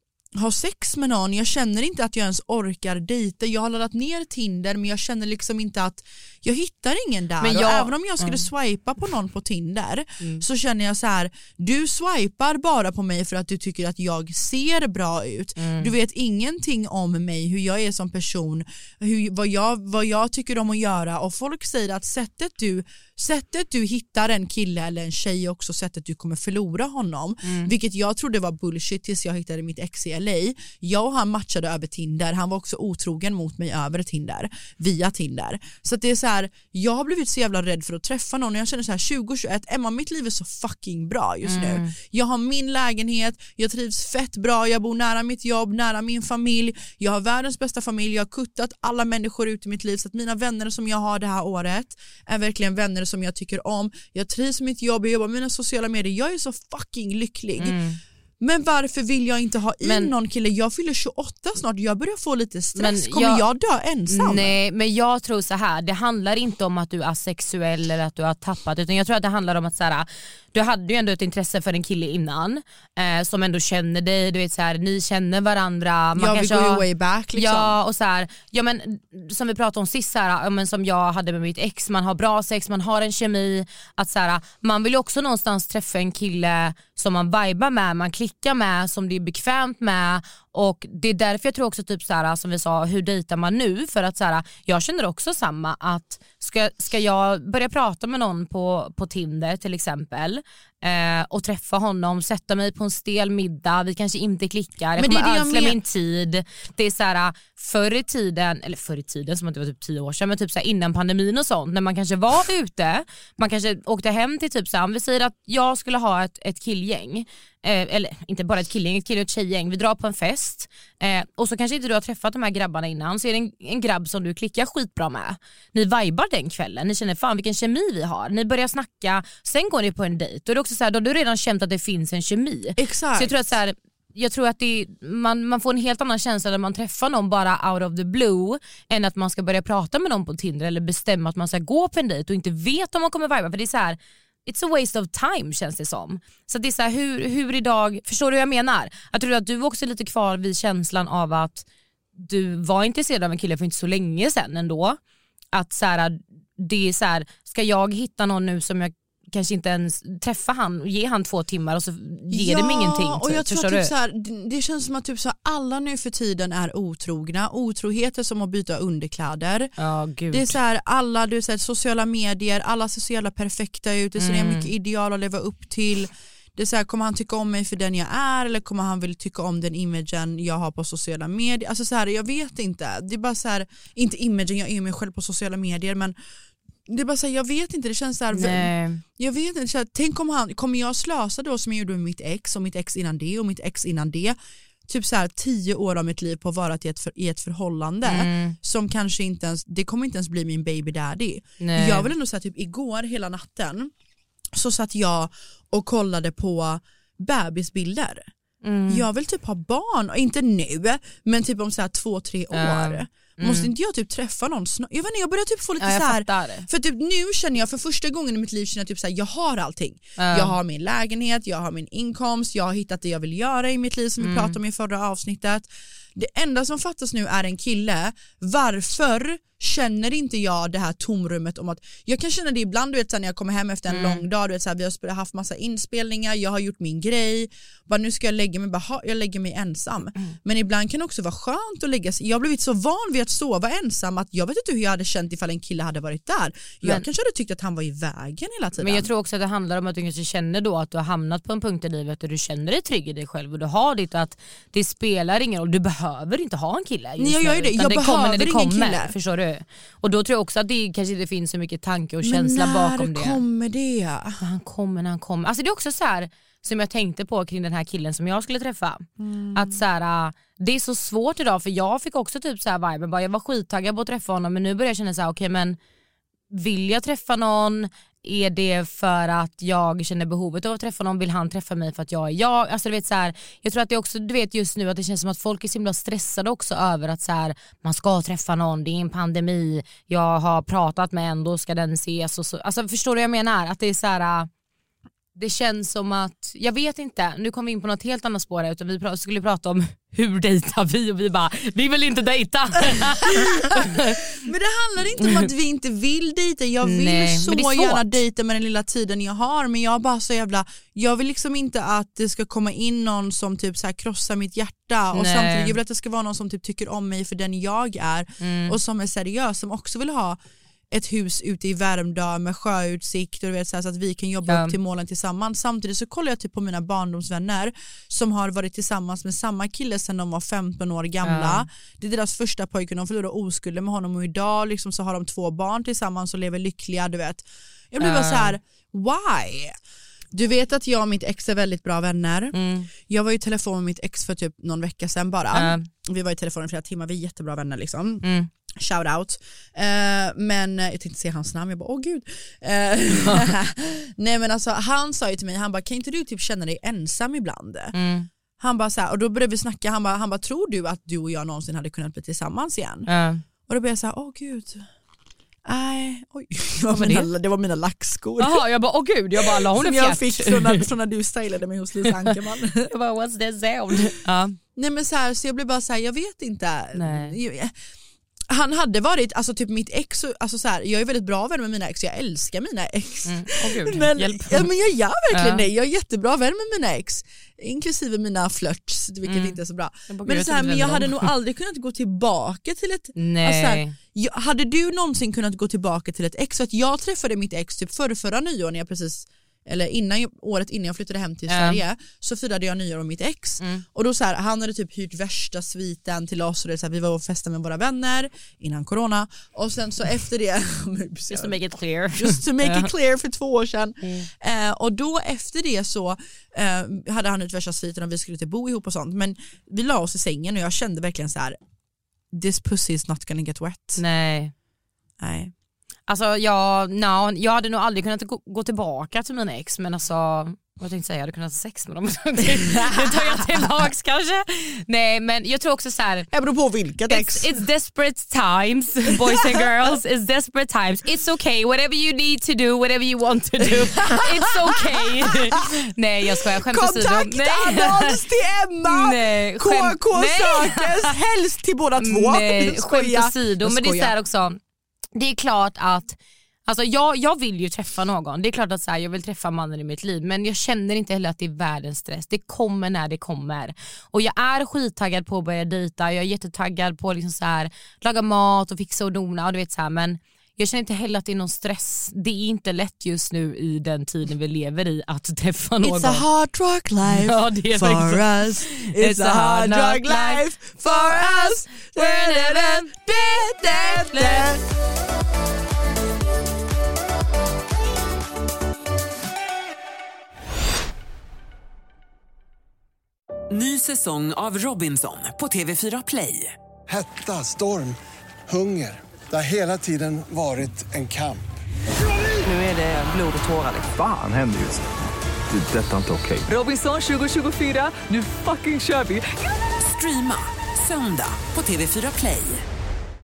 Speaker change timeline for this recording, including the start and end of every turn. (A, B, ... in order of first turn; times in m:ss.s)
0:00.4-0:57.8 A
0:07.4-0:08.4 B
0:15.6-0:15.9 B
0:27.4-0:27.7 B
0:41.4-0:41.9 B
0:57.6-0:58.0 B
0:58.4-1:04.5 A
0:59.8-1:00.1 B
1:02.8-1:03.4 B
1:04.1-1:16.8 B
1:16.2-1:17.8 A
1:17.4-2:31.6 B
1:45.0-1:45.8 A
2:12.8-2:13.5 A
2:32.2-2:35.0 B
2:35.5-2:43.9 B
2:42.3-2:49.7 A
2:49.8-2:50.6 B
2:50.3-3:06.2 A
2:54.2-2:54.7 B
3:06.9-3:23.9 A
3:08.3-3:09.0 B
3:18.0-3:18.6 B
3:21.6-3:22.1 B
3:24.5-3:28.3 A
3:28.6-3:29.0 B
3:28.9-4:09.1 A
3:32.5-3:33.7 B
3:35.8-3:36.7 B
3:40.2-3:40.5 B
3:44.2-3:44.6 B
3:53.9-3:54.2 B
4:08.8-4:23.4 B
4:17.2-4:19.1 A
4:22.2-4:24.4 A
4:24.4-4:35.8 B
4:29.2-4:29.8 A
4:36.5-4:54.5 B
4:55.4-5:04.2 B
5:02.8-5:20.4 A
5:05.2-5:05.5 B
5:06.8-5:08.2 B
5:15.1-5:15.7 B
5:18.4-5:18.8 B
5:20.9-5:39.8 A
5:24.5-5:24.8 B
5:31.2-5:31.6 B
5:38.0-5:38.6 B
5:40.3-5:48.2 A
5:42.5-5:42.9 B
5:45.5-5:45.9 B
5:48.2-5:48.5 B
5:48.8-5:57.9 A
5:57.9-5:58.3 B
5:58.6-6:03.1 A
6:03.1-6:03.4 B
6:03.7-6:04.8 A
6:05.6-6:08.6 A
6:06.9-6:07.3 B
6:08.4-6:10.8 B
6:09.4-6:12.9 A
6:12.9-6:14.6 B
6:14.8-6:17.7 A
6:16.9-6:17.4 B
6:18.5-6:51.6 A
6:23.2-6:24.7 B
6:25.3-6:25.6 B
6:29.3-6:31.3 B
6:33.2-6:33.9 B
6:41.5-6:41.8 B
6:43.6-6:43.8 B
6:51.3-6:52.9 B
6:52.1-7:01.6 A
7:02.3-7:04.0 A
7:04.0-7:04.5 B
7:05.2-7:05.5 A
7:06.1-7:16.3 B
7:12.4-7:13.7 A
7:16.3-7:17.6 A
7:17.1-7:28.2 B
7:19.2-7:19.6 A
7:23.6-7:25.6 A
7:26.4-7:34.1 A
7:28.8-7:31.1 B
7:32.0-7:34.6 B
7:35.1-7:56.2 B
7:55.8-8:04.6 A
7:57.0-8:04.5 B
8:13.5-8:16.5 C
8:16.9-8:21.4 D
8:22.4-8:23.9 C
8:23.9-8:24.9 E
8:25.5-8:26.5 E
8:26.5-8:32.6 C